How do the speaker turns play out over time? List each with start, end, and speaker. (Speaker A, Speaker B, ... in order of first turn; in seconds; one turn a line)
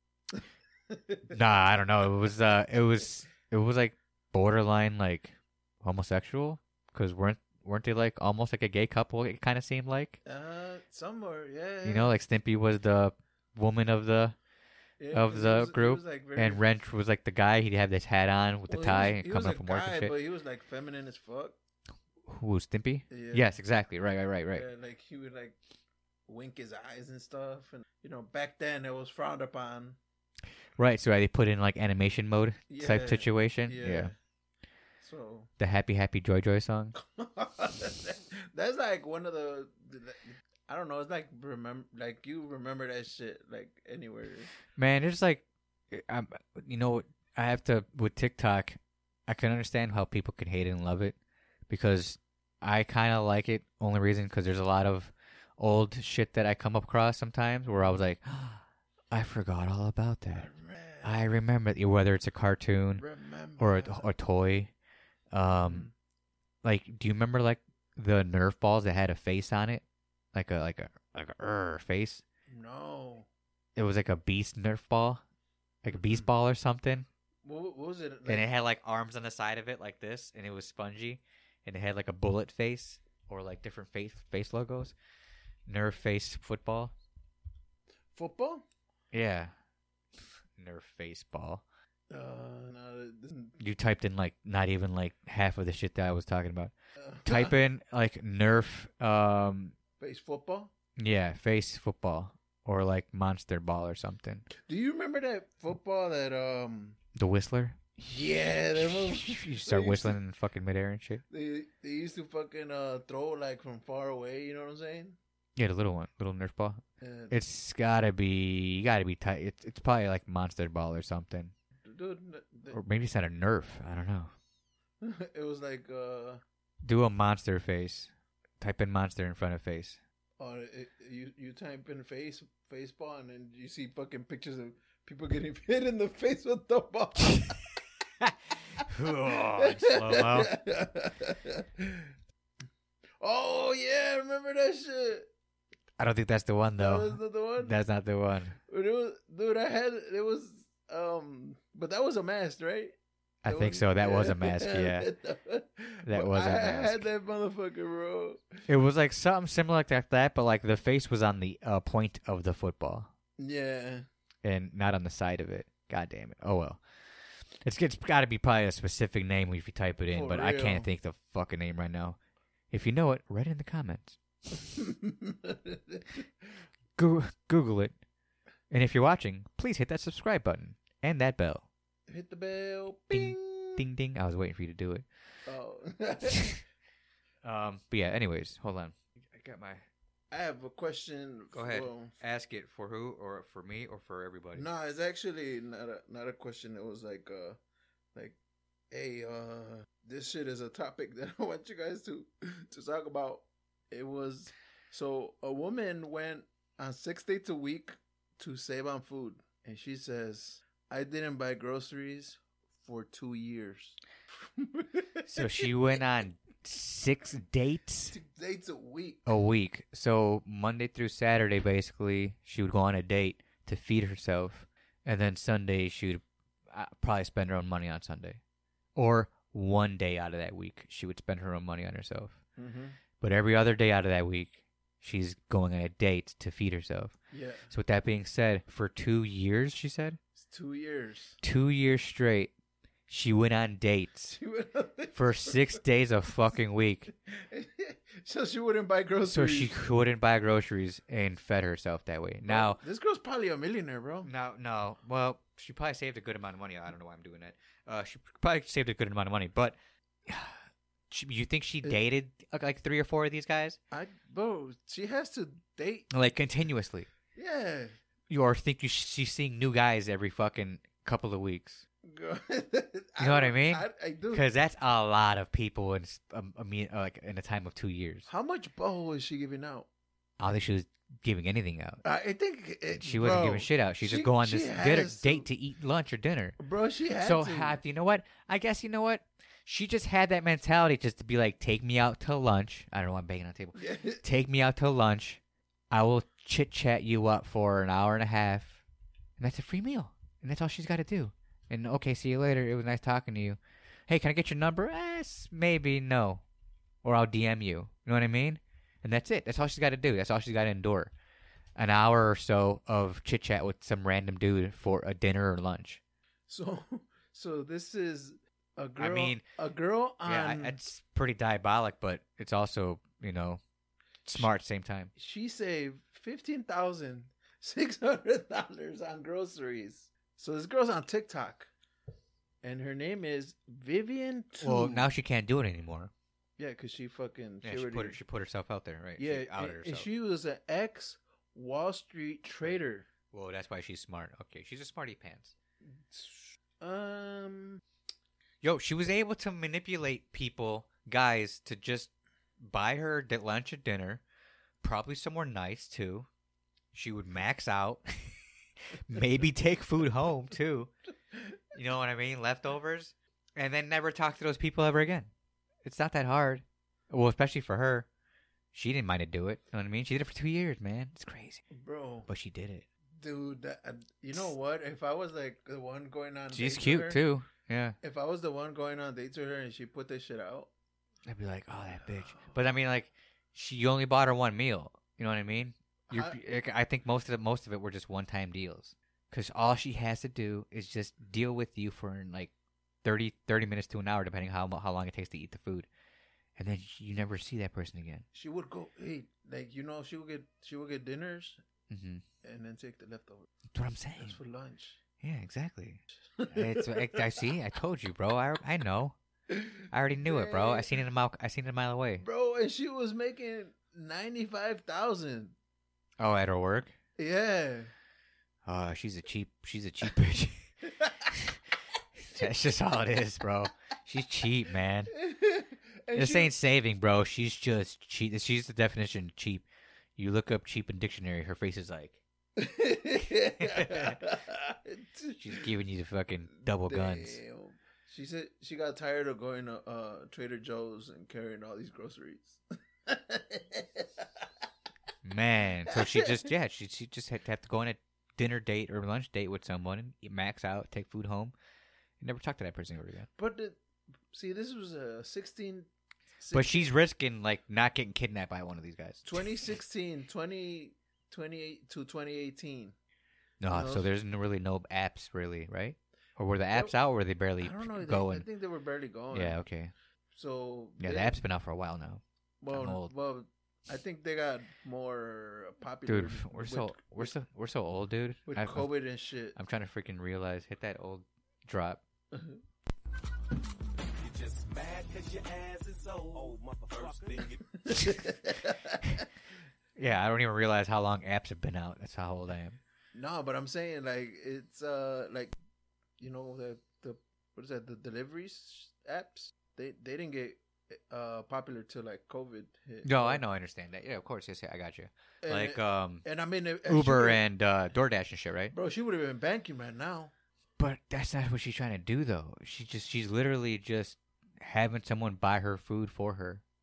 Speaker A: 0.3-1.4
Speaker B: 1.3-10.2
Speaker A: 10.2-12.2
Speaker B: 11.8-14.4
Speaker A: 15.0-16.6
Speaker B: 15.1-20.1
Speaker A: 18.7-21.6
Speaker B: 22.3-24.7
Speaker A: 23.1-23.5
Speaker A: 24.5-25.6
Speaker A: 26.3-30.0
Speaker B: 30.8-34.1
Speaker A: 32.7-34.1
Speaker A: 35.0-35.5
Speaker B: 35.6-37.0
Speaker A: 37.0-44.5
Speaker B: 44.8-51.2
Speaker B: 51.7-60.5
Speaker A: 60.3-61.2
Speaker B: 61.0-63.0
Speaker A: 63.0-64.1
Speaker B: 63.6-64.7
Speaker B: 65.3-65.9
Speaker A: 65.7-65.9
Speaker B: 66.6-72.2
Speaker A: 72.5-73.3
Speaker B: 73.8-75.2
Speaker B: 75.8-77.1
Speaker A: 75.9-76.3
Speaker A: 77.4-78.5
Speaker B: 78.3-85.0
Speaker B: 85.7-86.9
Speaker A: 88.1-88.6
Speaker B: 89.1-89.5
Speaker B: 90.6-91.6
Speaker A: 92.1-93.6
Speaker B: 93.6-96.7
Speaker A: 97.0-97.6
Speaker B: 97.2-99.7
Speaker A: 100.0-100.7
Speaker B: 101.0-104.5
Speaker A: 104.5-107.0
Speaker B: 107.2-108.0
Speaker A: 108.0-110.2
Speaker B: 108.8-111.2
Speaker A: 111.3-115.2
Speaker B: 115.6-121.5
Speaker A: 117.0-117.4
Speaker A: 121.8-122.8
Speaker B: 122.7-124.3
Speaker A: 125.0-126.4
Speaker B: 126.8-130.0
Speaker A: 130.4-137.6
Speaker B: 138.2-140.5
Speaker A: 139.2-142.1
Speaker A: 143.2-145.3
Speaker B: 146.0-148.6
Speaker A: 146.8-147.8
Speaker A: 148.7-158.6
Speaker B: 153.4-155.1
Speaker B: 156.1-157.1
Speaker B: 158.7-163.1
Speaker A: 163.4-164.1
Speaker B: 164.4-166.8
Speaker B: 167.6-172.2
Speaker A: 170.1-170.9
Speaker B: 172.7-174.2
Speaker A: 174.7-176.5
Speaker B: 177.0-177.9
Speaker B: 178.7-181.7
Speaker A: 182.1-183.8
Speaker B: 183.1-185.1
Speaker A: 185.5-186.6
Speaker B: 186.3-186.6
Speaker B: 187.4-189.9
Speaker A: 190.3-192.2
Speaker B: 191.5-194.7
Speaker A: 194.6-197.6
Speaker A: 198.9-215.7
Speaker B: 215.3-218.2
Speaker A: 218.1-219.3
Speaker B: 219.3-228.4
Speaker B: 229.0-232.4
Speaker A: 232.6-233.0
Speaker B: 233.2-237.1
Speaker A: 237.3-237.7
Speaker B: 237.7-240.2
Speaker A: 240.4-241.4
Speaker B: 241.4-242.5
Speaker B: 243.1-244.4
Speaker A: 244.3-245.8
Speaker B: 245.2-247.1
Speaker A: 247.1-249.7
Speaker B: 249.3-252.8
Speaker A: 252.4-254.3
Speaker B: 254.2-259.8
Speaker B: 260.3-263.8
Speaker A: 263.9-266.1
Speaker B: 266.1-267.1
Speaker A: 267.3-267.9
Speaker B: 268.3-271.8
Speaker A: 272.1-274.4
Speaker B: 273.2-278.3
Speaker A: 278.3-279.9
Speaker B: 280.4-282.0
Speaker A: 282.0-285.5
Speaker B: 282.9-286.6
Speaker A: 286.6-287.8
Speaker B: 287.2-295.4
Speaker A: 293.8-294.2
Speaker B: 295.9-298.8
Speaker B: 299.4-306.4
Speaker B: 307.0-311.1
Speaker B: 311.8-316.0
Speaker A: 316.5-320.8
Speaker B: 319.0-319.4
Speaker B: 320.2-323.6
Speaker B: 324.2-325.1
Speaker A: 325.2-331.7
Speaker A: 332.6-335.1
Speaker B: 334.6-336.1
Speaker A: 336.6-338.2
Speaker B: 337.6-340.1
Speaker A: 339.2-343.1
Speaker B: 343.3-345.5
Speaker A: 345.9-347.8
Speaker B: 348.6-354.2
Speaker B: 354.8-356.3
Speaker B: 356.9-358.4
Speaker B: 358.9-360.9
Speaker B: 361.7-365.3
Speaker B: 365.8-368.1
Speaker B: 368.7-371.6
Speaker A: 371.7-372.3
Speaker B: 372.3-372.9
Speaker A: 373.2-377.2
Speaker B: 376.5-378.0
Speaker A: 378.0-380.7
Speaker B: 381.3-392.5
Speaker A: 382.0-382.5
Speaker A: 386.1-386.4
Speaker B: 393.0-395.9
Speaker B: 396.6-398.2
Speaker A: 398.3-401.6
Speaker B: 401.9-402.2
Speaker A: 402.4-403.5
Speaker B: 403.7-404.4
Speaker A: 404.2-405.0
Speaker B: 405.2-409.2
Speaker A: 406.4-407.3
Speaker A: 409.5-410.9
Speaker B: 409.9-412.2
Speaker A: 412.2-415.6
Speaker B: 416.2-416.9
Speaker A: 417.2-417.9
Speaker B: 418.7-420.7
Speaker A: 420.9-421.3
Speaker B: 421.3-421.6
Speaker B: 422.2-425.1
Speaker A: 425.1-426.5
Speaker B: 426.1-429.6
Speaker B: 430.2-432.2
Speaker A: 432.6-435.7
Speaker B: 433.6-434.2
Speaker B: 435.4-437.4
Speaker A: 436.6-444.5
Speaker B: 445.2-451.5
Speaker A: 445.9-446.4
Speaker B: 452.2-453.3
Speaker A: 453.4-453.8
Speaker A: 454.3-455.9
Speaker A: 456.4-456.9
Speaker B: 456.5-459.4
Speaker A: 459.3-462.9
Speaker B: 463.6-468.5
Speaker A: 463.7-464.1
Speaker A: 467.6-469.6
Speaker B: 469.3-469.9
Speaker A: 470.3-471.4
Speaker B: 471.0-473.1
Speaker A: 472.6-477.3
Speaker B: 476.1-478.9
Speaker A: 478.5-479.6
Speaker B: 479.6-482.0
Speaker A: 482.3-482.6
Speaker C: 484.2-487.6
Speaker A: 487.8-489.3
Speaker B: 490.0-492.8
Speaker A: 493.1-495.5
Speaker A: 496.2-503.4
Speaker B: 503.0-506.2
Speaker A: 505.4-507.4
Speaker B: 506.9-508.7
Speaker A: 508.7-510.3
Speaker B: 510.8-516.6